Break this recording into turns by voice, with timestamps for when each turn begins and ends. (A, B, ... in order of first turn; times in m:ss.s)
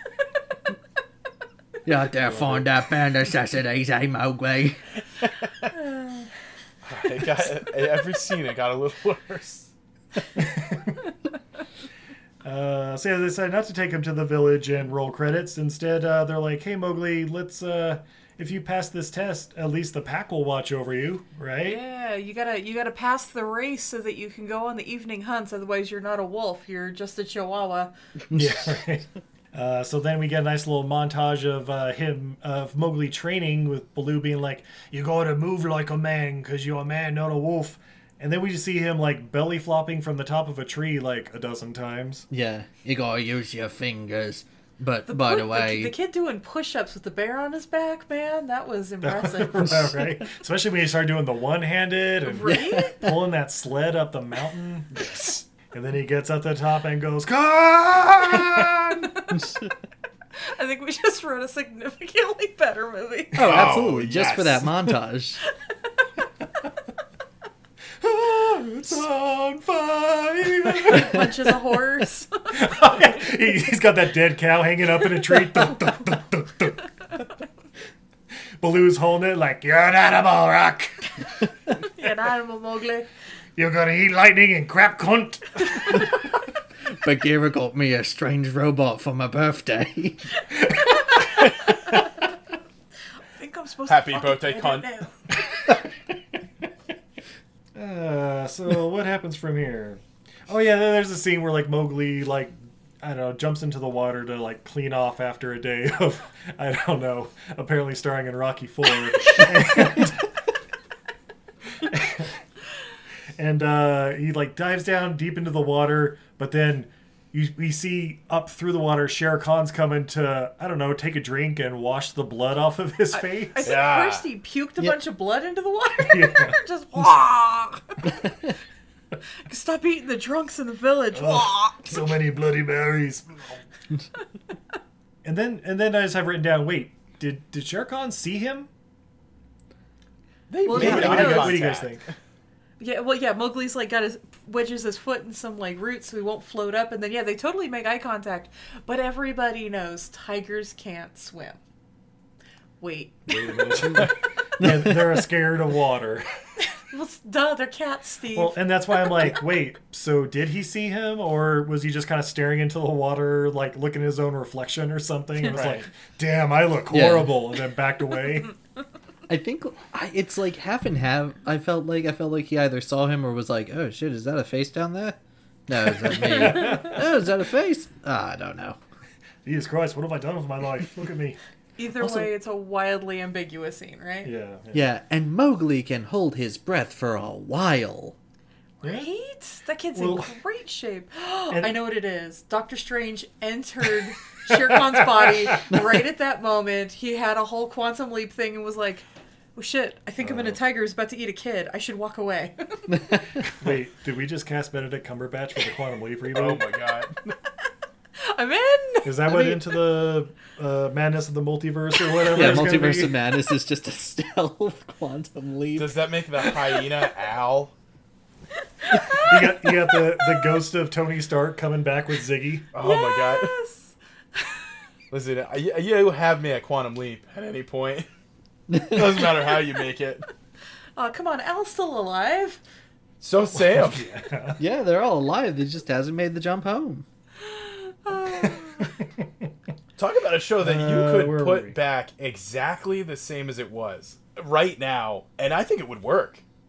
0:01.8-0:04.8 A
0:02.2-0:02.7 B
0:05.9-0:06.3 C
0:06.8-0:09.7 B
0:10.4-0:11.0 D
0:12.4-0:21.8 D
0:21.6-0:27.9 C
0:28.3-0:42.3 D
0:42.3-0:45.9 A
0:45.1-0:49.9 C
0:49.0-0:59.3 D
0:52.2-0:53.0 C
0:52.4-0:53.2 A
1:00.4-1:03.6 C
1:03.4-1:05.4 A
1:03.4-1:04.9 B
1:08.0-1:11.5 D
1:10.7-1:12.3 C
1:12.5-1:16.8 D
1:18.6-1:21.1 D
1:21.9-1:23.1 C
1:23.6-1:26.0 D
1:27.0-1:30.2 A
1:33.4-1:35.1 C
1:33.9-1:34.9 B
1:37.7-1:50.3 D
1:51.8-1:52.3 D
1:53.4-2:03.8 D
2:03.1-2:08.1 C
2:03.6-2:04.3 B
2:06.0-2:06.6 D
2:09.4-2:11.9 C
2:11.1-2:13.4 D
2:15.2-2:18.7 D
2:20.5-2:22.0 B
2:20.6-2:21.6 C
2:20.7-2:22.0 D
2:22.8-2:31.6 C
2:32.8-2:33.3 C
2:33.3-2:36.3 D
2:34.6-2:35.2 A
2:36.9-2:39.1 C
2:38.3-2:48.5 D
2:45.5-2:45.9 B
2:46.9-2:47.3 A
2:49.3-2:58.8 A
2:56.0-2:57.0 D
2:59.4-3:01.4 D
3:01.8-3:04.3 C
3:04.2-3:04.9 D
3:04.7-3:08.2 A
3:08.8-3:09.1 D
3:08.8-3:19.0 C
3:10.0-3:10.3 D
3:11.5-3:11.8 D
3:14.8-3:15.3 D
3:19.5-3:22.5 C
3:20.2-3:20.6 D
3:23.6-3:26.6 D
3:26.3-3:27.2 B
3:28.2-3:29.6 C
3:29.0-3:33.2 D
3:32.3-3:36.0 A
3:35.8-3:37.7 B
3:39.0-3:39.2 C
3:39.1-3:42.7 D
3:42.7-3:43.5 B
3:42.8-3:43.9 C
3:45.1-3:48.1 B
3:48.7-3:49.0 A
3:48.8-3:50.2 B
3:51.0-3:52.6 C
3:53.2-3:54.0 B
3:53.5-3:54.6 D
3:54.6-3:57.0 A
3:57.5-3:58.9 C
3:59.0-3:59.3 D
4:00.0-4:06.4 B
4:00.6-4:01.8 D